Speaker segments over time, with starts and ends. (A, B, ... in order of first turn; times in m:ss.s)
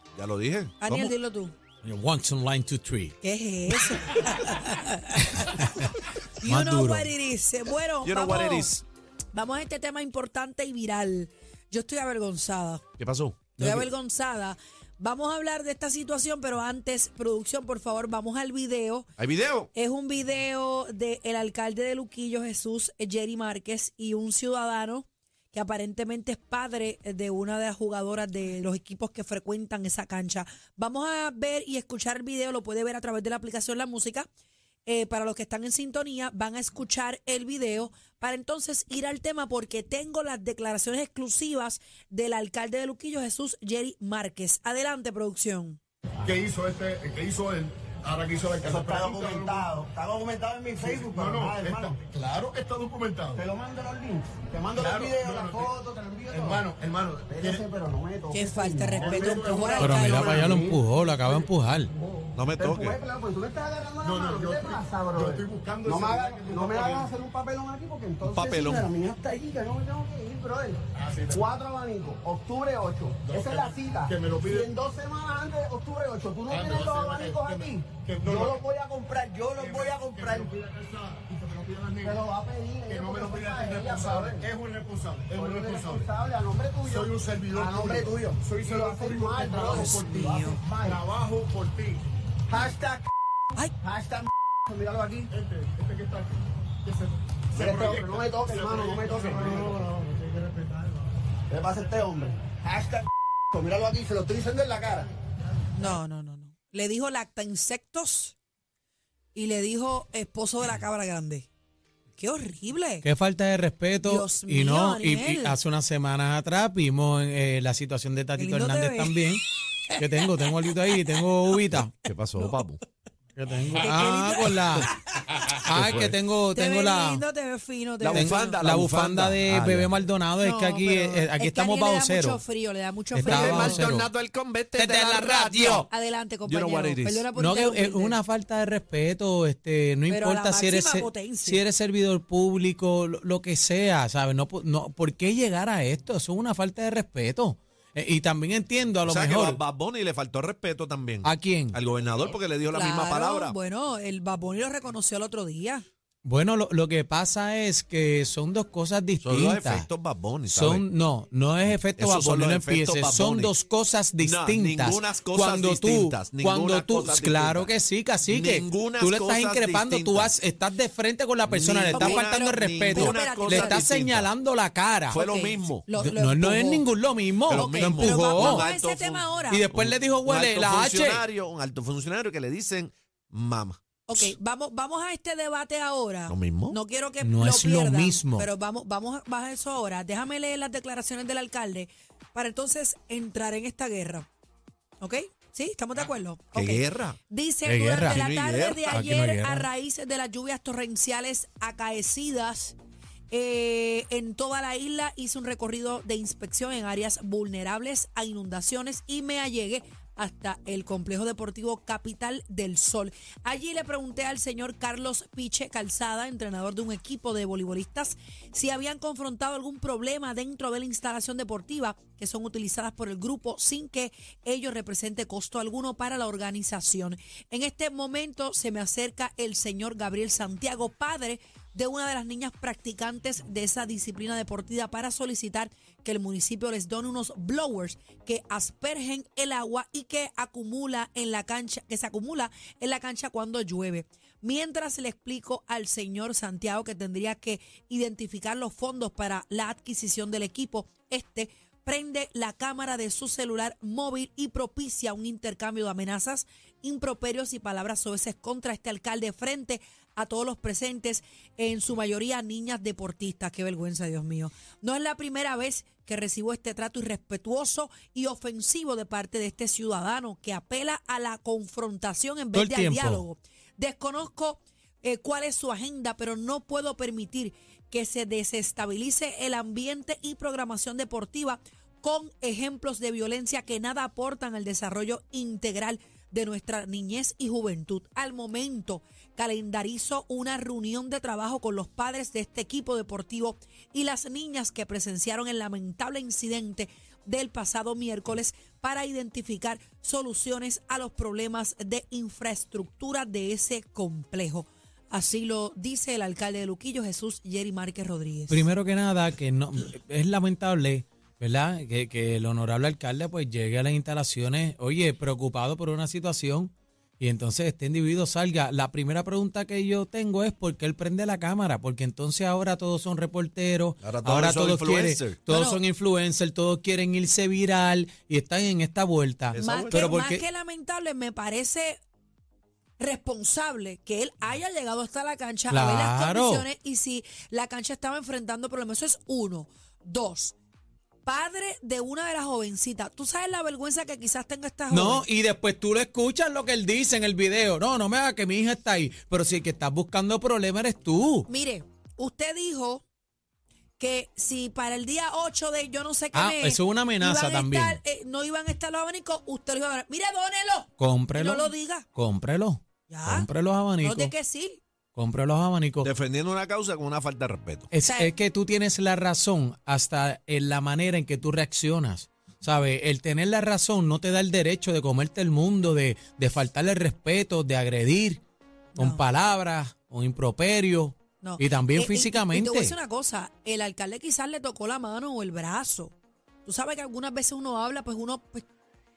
0:00.2-0:01.1 A
0:00.8-0:01.5 B
0:01.8-0:03.2 C
0:03.2-0:05.7 B
0:03.8-0:04.6 C
0:05.2-0:07.1 C
0:06.4-0:08.7 B
0:08.0-0:08.8 A
0:09.3-0:12.8 B
0:13.0-0:13.7 A
0:13.6-0:19.1 B
0:19.2-0:19.7 A
0:19.7-0:34.3 B
0:34.9-0:45.8 B
0:46.2-0:49.7 D
0:48.6-0:52.0 E
0:50.8-0:53.5 D
0:53.4-0:56.6 E
0:54.8-0:55.7 D
0:56.3-0:57.6 D
0:57.3-1:01.4 E
0:58.3-1:00.4 B
0:59.0-1:00.5 D
0:59.8-1:01.9 C
1:02.2-1:20.5 E
1:02.4-1:03.0 A
1:04.0-1:07.1 D
1:08.2-1:08.9 A
1:11.0-1:11.4 D
1:13.3-1:14.7 D
1:16.5-1:18.6 D
1:19.6-1:22.2 D
1:22.0-1:24.5 E
1:22.9-1:26.1 D
1:25.3-1:31.0 E
1:26.8-1:32.0 D
1:29.6-1:30.6 B
1:32.5-1:33.1 E
1:33.8-1:35.3 E
1:35.3-1:41.0 D
1:37.6-1:39.9 E
1:41.5-1:45.1 E
1:45.8-1:48.4 B
1:49.4-1:51.5 B
1:52.2-1:53.1 B
1:53.0-1:59.4 C
1:54.0-1:55.6 B
1:58.4-1:59.2 B
1:59.9-2:01.5 B
2:00.0-2:02.0 C
2:02.0-2:02.8 A
2:03.4-2:04.9 C
2:03.7-2:04.9 B
2:05.6-2:06.1 A
2:05.6-2:07.2 C
2:06.5-2:08.6 B
2:08.0-2:10.0 A
2:08.1-2:12.4 C
2:10.4-2:13.9 B
2:13.1-2:14.1 C
2:13.2-2:15.9 A
2:14.8-2:15.9 C
2:15.9-2:18.2 B
2:16.4-2:17.3 A
2:17.4-2:29.6 C
2:20.1-2:21.6 B
2:29.1-2:33.6 A
2:31.2-2:31.8 C
2:32.7-2:35.8 B
2:36.2-2:39.9 C
2:39.2-2:40.8 A
2:40.5-2:55.2 C
2:41.9-2:43.5 A
2:44.2-2:47.7 A
2:48.2-2:50.4 A
2:51.5-2:54.3 A
2:51.9-2:53.8 B
2:55.1-2:55.9 A
2:55.1-2:56.9 B
2:56.0-2:58.7 C
2:57.5-3:03.8 A
2:57.5-2:59.6 B
2:59.5-3:01.2 C
3:04.1-3:14.3 B
3:06.3-3:06.8 A
3:07.2-3:08.5 C
3:15.0-3:22.8 B
3:16.6-3:17.2 A
3:17.6-3:18.2 C
3:18.0-3:19.1 A
3:18.9-3:19.7 C
3:23.3-5:08.7 B
4:32.5-4:33.2 C
5:08.5-5:30.4 C
5:24.0-5:25.4 A
5:25.5-5:25.8 B
5:29.5-5:30.1 A
5:29.6-5:32.0 B
5:33.0-5:40.6 B
5:35.7-5:36.7 C
5:41.2-5:45.3 B
5:44.9-5:51.5 C
5:51.5-5:53.0 B
5:54.0-6:02.1 B
5:56.3-5:58.0 C
6:01.0-6:04.3 C
6:03.1-6:04.8 B
6:05.2-6:06.1 C
6:06.0-6:07.9 A
6:07.9-6:18.4 C
6:08.0-6:08.3 B
6:19.0-6:19.2 B
6:19.0-6:23.0 C
6:21.4-6:26.1 B
6:26.6-6:28.7 B